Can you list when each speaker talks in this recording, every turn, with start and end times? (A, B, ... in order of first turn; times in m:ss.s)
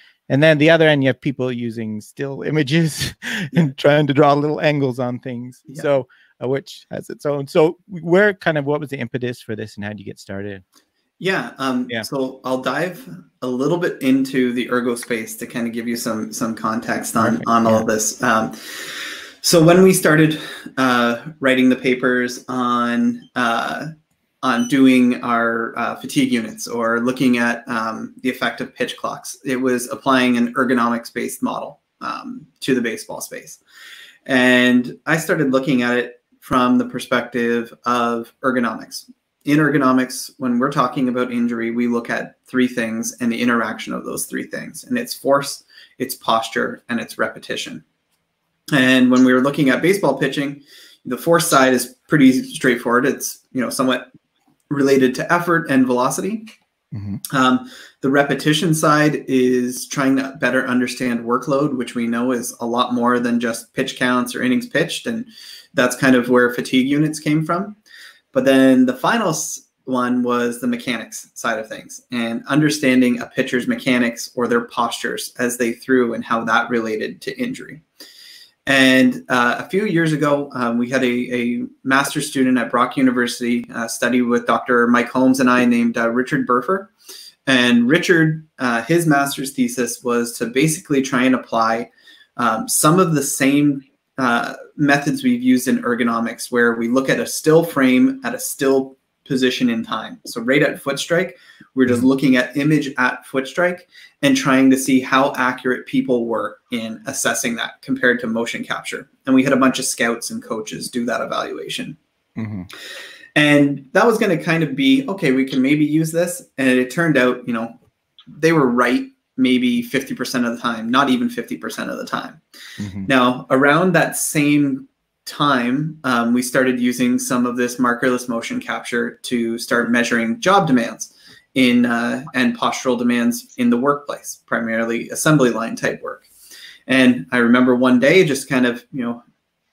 0:00.3-0:10.6 A
0:11.2-0:23.9 B
0:17.2-0:17.8 A
0:24.4-0:33.6 B
0:34.2-0:47.8 B
0:48.7-0:54.1 B
0:54.7-0:56.5 B
0:56.9-0:57.2 A
0:57.3-1:07.8 B
1:08.3-1:17.8 B
1:18.6-1:26.9 B
1:27.5-1:52.0 B
1:52.4-1:52.7 A
1:53.3-1:57.7 B
1:58.3-2:02.4 B
2:02.8-2:03.1 A
2:03.0-2:16.3 B
2:16.9-2:19.2 B